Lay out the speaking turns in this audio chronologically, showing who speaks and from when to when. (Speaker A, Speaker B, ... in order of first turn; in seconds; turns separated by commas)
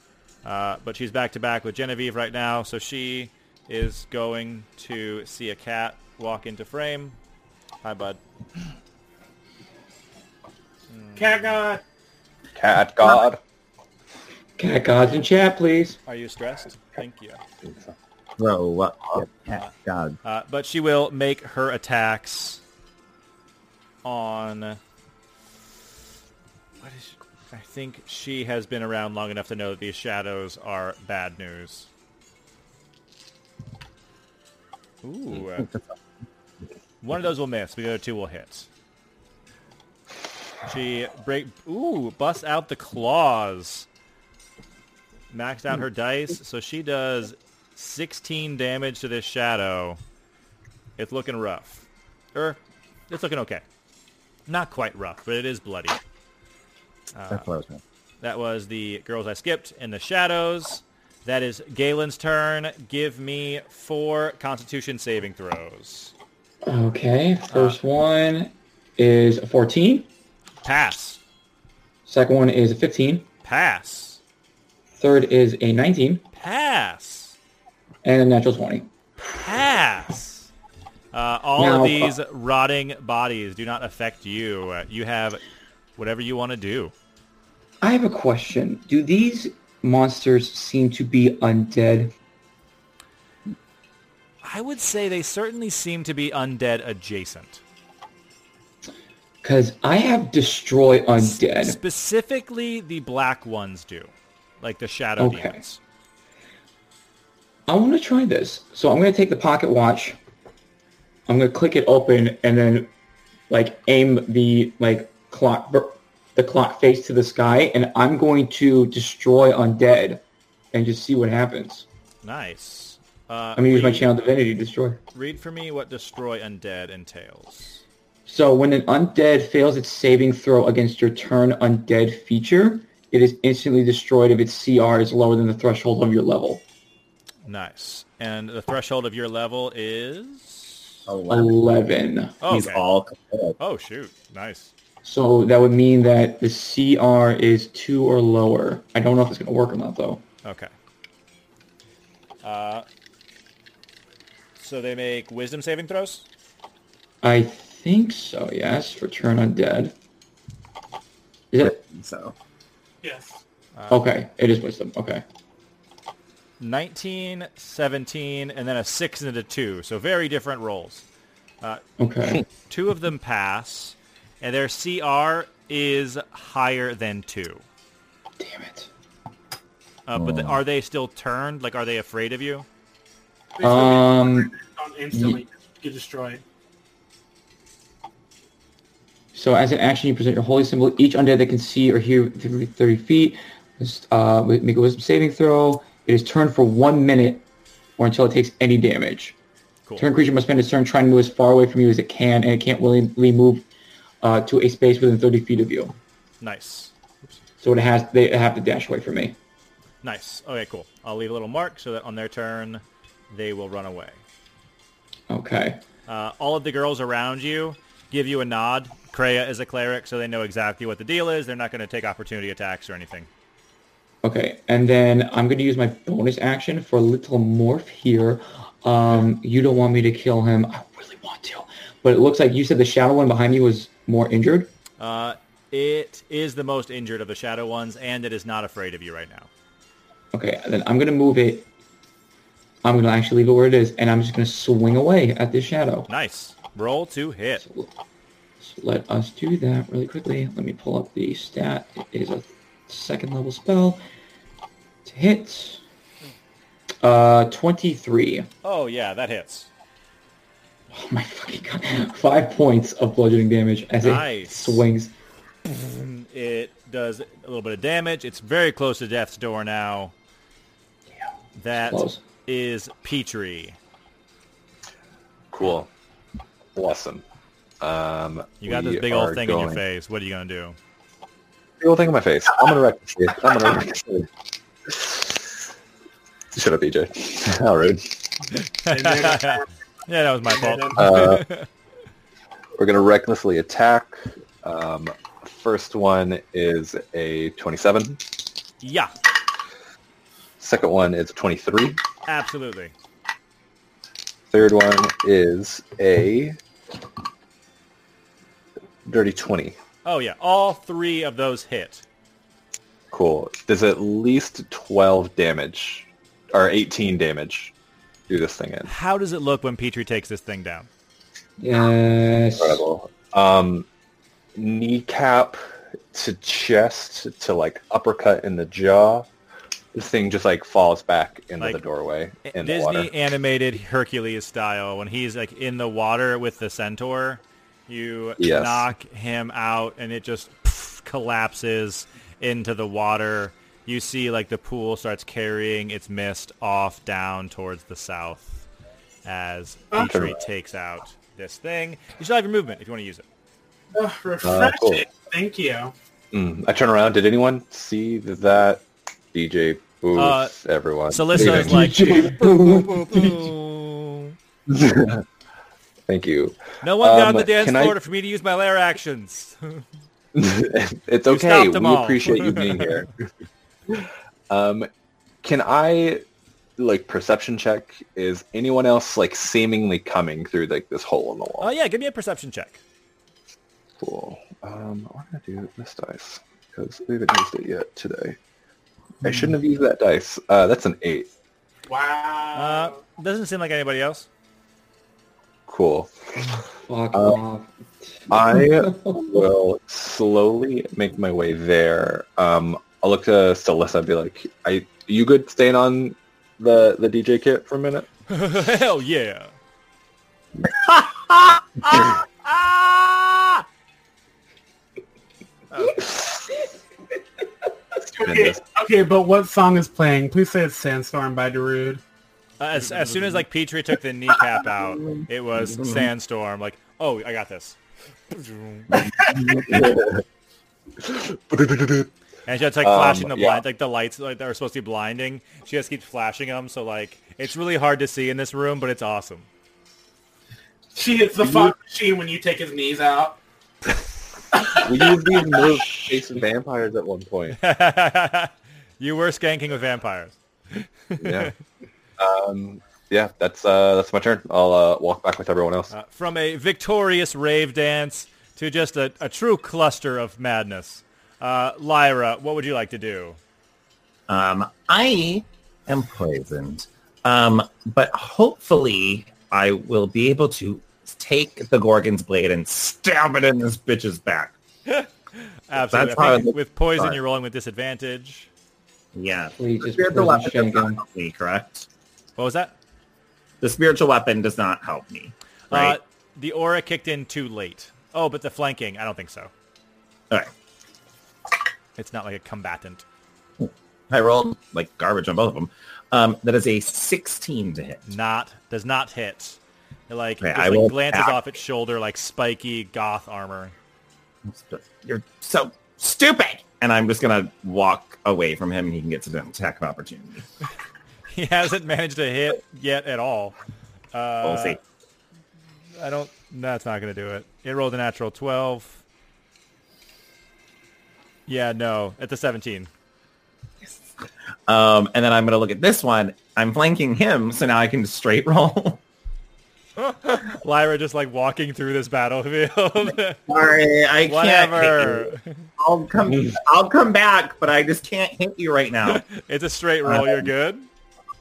Speaker A: 0.4-7.2, Speaker A: 7.8-8.2, Speaker A: 10.9-11.6, Speaker B: 11.2-11.8, Speaker C: 12.6-13.4, Speaker D: 14.6-16.0, Speaker A: 16.1-17.4, Speaker C: 17.6-17.9, Speaker E: 18.4-20.2, Speaker A: 20.2-22.6, Speaker A: 24.0-24.8, Speaker A: 26.8-31.9, Speaker A: 35.0-35.7, Speaker A: 37.0-38.7, Speaker A: 40.6-43.9, Speaker A: 45.3-50.0, Speaker A: 51.0-53.6, Speaker A: 54.5-56.0, Speaker A: 57.1-57.5, Speaker E: 57.3-57.8, Speaker A: 58.2-66.1, Speaker D: 66.7-70.1, Speaker A: 67.5-67.8, Speaker A: 70.6-71.2, Speaker D: 72.1-73.3, Speaker A: 73.4-74.2, Speaker D: 74.9-76.2, Speaker A: 76.3-77.4, Speaker D: 78.0-78.9, Speaker A: 79.3-80.5, Speaker A: 81.1-85.4, Speaker D: 81.6-82.1, Speaker A: 86.0-86.9, Speaker D: 87.8-92.1, Speaker A: 94.4-97.6, Speaker D: 99.4-101.8, Speaker A: 101.2-105.8, Speaker D: 105.2-105.6, Speaker D: 107.7-110.2, Speaker D: 111.3-112.9, Speaker D: 113.5-121.9, Speaker A: 122.2-124.1, Speaker D: 123.6-125.0, Speaker A: 125.1-127.8, Speaker D: 128.3-136.6, Speaker A: 137.4-140.9, Speaker E: 141.1-141.6, Speaker D: 141.3-142.4, Speaker A: 142.4-142.8, Speaker E: 142.5-143.6, Speaker A: 143.6-144.7, Speaker D: 145.0-150.2, Speaker A: 150.4-150.7, Speaker A: 152.4-152.9, Speaker A: 154.6-156.3, Speaker D: 157.2-159.9, Speaker D: 161.5-161.8, Speaker E: 161.7-162.3, Speaker B: 163.0-163.4, Speaker A: 163.8-164.1, Speaker D: 163.9-165.2, Speaker A: 166.6-171.1, Speaker D: 172.0-172.4, Speaker A: 172.7-177.6, Speaker D: 178.4-178.9, Speaker A: 180.1-182.7, Speaker E: 180.2-180.6, Speaker B: 183.6-186.4, Speaker D: 183.6-184.5, Speaker D: 185.1-185.4, Speaker D: 189.3-197.4, Speaker D: 198.0-199.3, Speaker D: 200.0-203.7, Speaker D: 204.2-206.0, Speaker A: 206.4-206.9, Speaker D: 207.6-209.4, Speaker A: 210.0-214.2, Speaker D: 215.3-215.8, Speaker A: 216.1-223.3, Speaker D: 224.2-234.7, Speaker A: 235.0-239.5, Speaker D: 240.3-241.7, Speaker D: 242.8-246.1, Speaker A: 246.1-247.6, Speaker D: 247.6-247.9, Speaker D: 248.6-254.0, Speaker D: 255.1-255.8, Speaker D: 257.0-258.5, Speaker A: 258.6-259.7, Speaker D: 260.9-265.1, Speaker A: 264.0-264.8, Speaker A: 265.7-270.1, Speaker A: 271.6-273.8, Speaker D: 271.8-272.2, Speaker C: 275.5-275.9, Speaker C: 276.8-277.2, Speaker C: 277.8-279.8, Speaker A: 278.6-280.8, Speaker C: 281.8-284.3, Speaker C: 284.9-285.5, Speaker C: 286.5-288.3, Speaker A: 288.8-291.7, Speaker B: 288.9-289.7, Speaker B: 290.5-291.0, Speaker C: 291.0-291.4, Speaker C: 292.8-298.2, Speaker A: 298.8-299.1, Speaker C: 300.6-302.0, Speaker A: 302.3-302.9, Speaker C: 304.5-306.6, Speaker C: 309.1-309.8, Speaker A: 310.1-312.1, Speaker C: 313.1-317.7, Speaker C: 318.3-318.9, Speaker A: 318.9-320.9, Speaker D: 321.6-322.8, Speaker C: 322.6-323.9, Speaker C: 324.6-329.3, Speaker C: 329.9-333.1, Speaker A: 332.5-348.7, Speaker C: 338.4-338.9, Speaker A: 349.2-353.2, Speaker C: 350.0-350.3, Speaker B: 353.9-355.9, Speaker C: 354.4-355.1, Speaker C: 356.3-361.9, Speaker A: 360.2-360.6, Speaker A: 361.1-364.4, Speaker D: 361.3-363.5, Speaker C: 364.7-365.2, Speaker C: 366.1-368.0, Speaker A: 366.8-369.8, Speaker C: 370.3-373.2, Speaker A: 371.3-373.0, Speaker C: 373.9-374.9, Speaker C: 375.4-376.2, Speaker C: 376.8-381.7, Speaker A: 381.6-382.8, Speaker C: 384.0-388.4, Speaker C: 389.2-391.3, Speaker B: 391.9-393.0, Speaker A: 392.6-394.3, Speaker C: 395.7-396.1, Speaker D: 396.6-399.4, Speaker C: 398.3-408.1, Speaker A: 408.3-409.5, Speaker E: 410.6-413.6, Speaker A: 415.7-416.1, Speaker B: 418.1-422.0, Speaker C: 418.2-418.6, Speaker A: 422.6-427.8, Speaker E: 425.0-426.1, Speaker A: 428.3-429.0, Speaker B: 429.0-429.3, Speaker C: 429.4-430.2, Speaker C: 431.0-432.1, Speaker A: 432.5-439.5, Speaker C: 432.8-433.6, Speaker B: 440.9-443.4, Speaker C: 441.4-441.7, Speaker B: 444.5-445.7, Speaker C: 444.7-447.6, Speaker A: 447.5-451.5, Speaker C: 451.2-451.5, Speaker C: 452.2-455.9, Speaker A: 455.9-463.4, Speaker E: 464.3-474.5, Speaker A: 474.9-478.5, Speaker E: 475.8-477.2, Speaker E: 479.1-481.9, Speaker D: 479.6-481.0, Speaker A: 482.4-482.8, Speaker E: 483.6-486.0, Speaker A: 485.7-489.5, Speaker A: 492.0-493.1, Speaker E: 493.6-498.1, Speaker A: 498.1-503.7, Speaker E: 500.4-501.4, Speaker E: 504.5-510.5, Speaker A: 511.3-513.6, Speaker A: 514.1-514.8, Speaker E: 514.4-514.8, Speaker A: 516.0-519.0, Speaker A: 521.5-522.9, Speaker E: 524.7-529.0, Speaker A: 530.0-533.4, Speaker E: 533.5-539.2, Speaker A: 534.3-535.7, Speaker A: 539.1-540.9, Speaker E: 540.0-540.5